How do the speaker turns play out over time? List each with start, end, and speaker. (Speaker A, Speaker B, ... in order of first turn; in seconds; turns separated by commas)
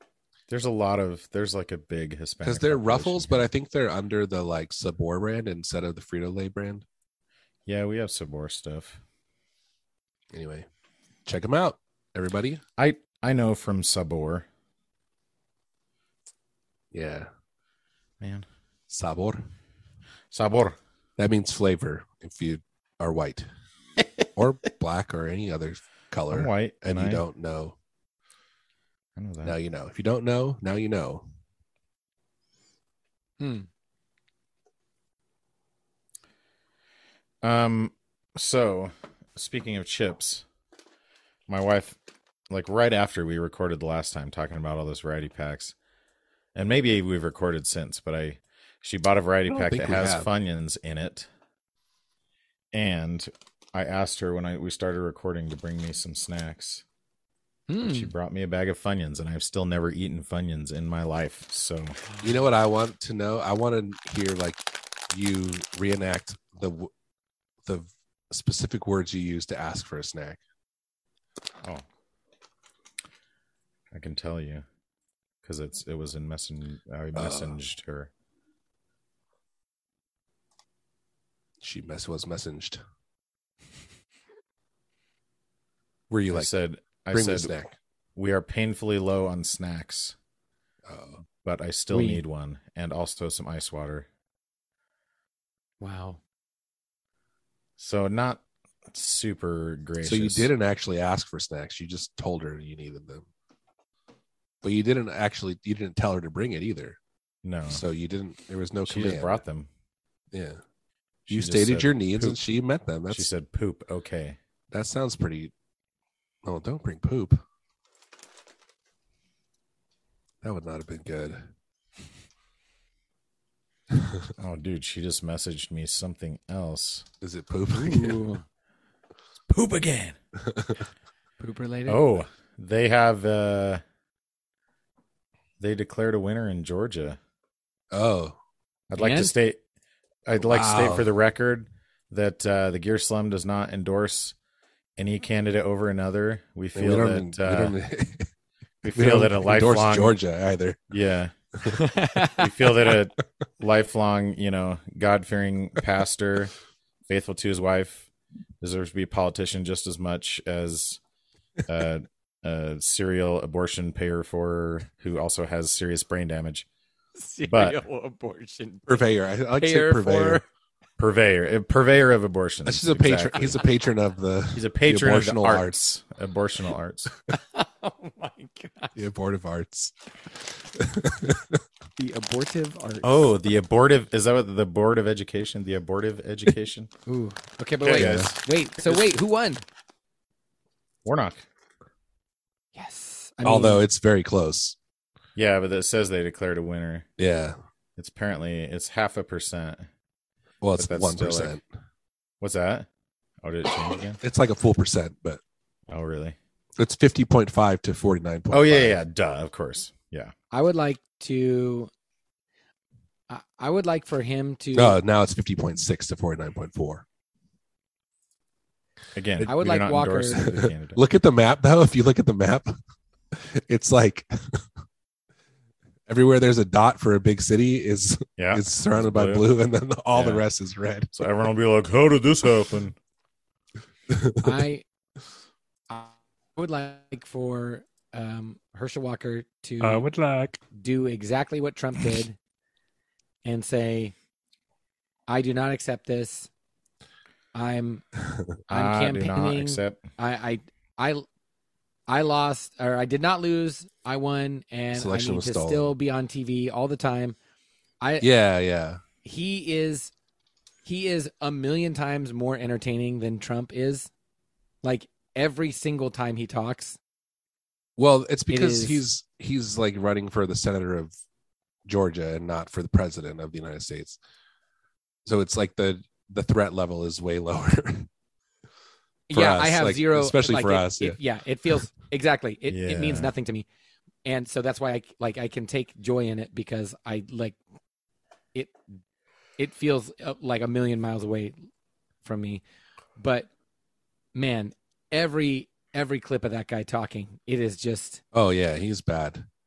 Speaker A: 0.5-3.4, Speaker B: 2.4-6.8, Speaker A: 7.7-9.0, Speaker B: 10.3-10.7, Speaker B: 11.2-12.6, Speaker A: 12.8-14.5, Speaker B: 16.9-17.3, Speaker A: 18.2-18.4, Speaker B: 18.9-19.4, Speaker A: 20.3-20.8, Speaker B: 21.2-23.5, Speaker B: 24.4-27.8, Speaker A: 26.3-27.2, Speaker A: 29.1-29.5, Speaker B: 29.4-31.2, Speaker C: 33.4-33.7, Speaker A: 37.4-40.4, Speaker A: 41.5-45.7, Speaker A: 46.5-51.3, Speaker B: 49.5-50.3, Speaker A: 52.7-56.8, Speaker C: 57.7-58.1, Speaker A: 57.8-62.0, Speaker C: 62.1-62.4, Speaker B: 62.2-66.9, Speaker B: 67.6-70.4, Speaker A: 73.9-74.6, Speaker A: 75.4-78.1, Speaker B: 77.1-77.5, Speaker B: 81.6-82.8, Speaker B: 86.1-86.5, Speaker A: 86.3-87.5, Speaker B: 87.1-87.8, Speaker A: 88.2-90.2, Speaker B: 90.9-91.2, Speaker A: 91.4-94.1, Speaker C: 91.9-92.2, Speaker C: 95.8-96.2, Speaker A: 97.8-100.5, Speaker B: 100.0-103.3, Speaker B: 104.6-107.0, Speaker A: 107.4-107.8, Speaker B: 107.7-109.4, Speaker A: 108.8-109.7, Speaker B: 110.3-110.6, Speaker A: 111.3-112.4, Speaker B: 111.3-113.3, Speaker A: 113.1-114.4, Speaker B: 114.7-115.5, Speaker B: 116.4-117.4, Speaker B: 120.4-121.5, Speaker B: 123.9-124.3, Speaker A: 124.4-127.0, Speaker B: 127.2-128.2, Speaker C: 127.7-128.4, Speaker A: 129.5-130.2, Speaker B: 130.4-130.8, Speaker C: 131.4-132.0, Speaker A: 131.9-133.8, Speaker A: 135.6-137.2, Speaker B: 137.9-138.4, Speaker A: 138.9-139.6, Speaker C: 138.9-139.3, Speaker A: 140.3-144.3, Speaker B: 140.4-141.1, Speaker A: 145.0-147.7, Speaker B: 146.7-148.3, Speaker A: 148.8-150.2, Speaker B: 148.9-150.9, Speaker A: 150.9-151.3, Speaker C: 151.7-152.4, Speaker A: 152.3-156.5, Speaker A: 157.1-158.1, Speaker A: 158.6-161.0, Speaker A: 161.7-166.7, Speaker C: 167.2-170.4, Speaker A: 167.4-167.8, Speaker B: 168.9-170.4, Speaker A: 171.0-173.6, Speaker B: 172.7-175.8, Speaker A: 174.5-177.1, Speaker C: 177.3-178.9, Speaker B: 178.9-179.9, Speaker B: 180.7-181.6, Speaker C: 182.0-183.2, Speaker A: 183.0-186.9, Speaker C: 187.1-189.6, Speaker A: 187.8-188.4, Speaker B: 187.9-188.4, Speaker A: 191.0-191.4, Speaker C: 192.8-193.8, Speaker B: 193.4-194.8, Speaker A: 195.3-197.1, Speaker B: 197.2-197.6, Speaker A: 198.0-199.9, Speaker B: 200.6-201.6, Speaker A: 200.8-201.6, Speaker A: 202.4-202.9, Speaker A: 203.4-204.2, Speaker B: 204.2-205.4, Speaker A: 205.9-206.4, Speaker B: 206.8-209.0, Speaker A: 208.5-210.3, Speaker C: 210.5-211.9, Speaker C: 213.3-215.0, Speaker B: 214.7-217.0, Speaker A: 219.1-221.0, Speaker C: 219.4-220.4, Speaker B: 220.3-222.7, Speaker B: 223.3-224.6, Speaker B: 226.1-231.1, Speaker A: 228.4-229.5, Speaker A: 230.1-230.4, Speaker A: 231.1-232.9, Speaker B: 234.1-234.6, Speaker C: 234.4-234.8, Speaker C: 235.9-240.1, Speaker B: 239.8-240.6, Speaker C: 240.7-242.3, Speaker C: 243.4-244.1, Speaker C: 245.3-246.5, Speaker C: 247.5-248.0, Speaker A: 248.7-250.0, Speaker C: 248.7-251.2, Speaker C: 252.1-257.4, Speaker B: 254.9-255.9, Speaker C: 258.0-258.3, Speaker B: 258.2-259.0, Speaker C: 259.2-260.1, Speaker C: 260.8-264.1, Speaker C: 264.8-267.0, Speaker B: 268.0-271.1, Speaker C: 268.5-269.1, Speaker B: 271.9-274.2, Speaker B: 275.2-278.1, Speaker C: 279.3-283.6, Speaker B: 279.3-281.2, Speaker A: 282.7-283.3, Speaker C: 284.2-287.6, Speaker C: 289.6-291.5, Speaker C: 292.2-292.6, Speaker C: 293.2-293.5, Speaker C: 294.3-298.2, Speaker B: 298.3-299.4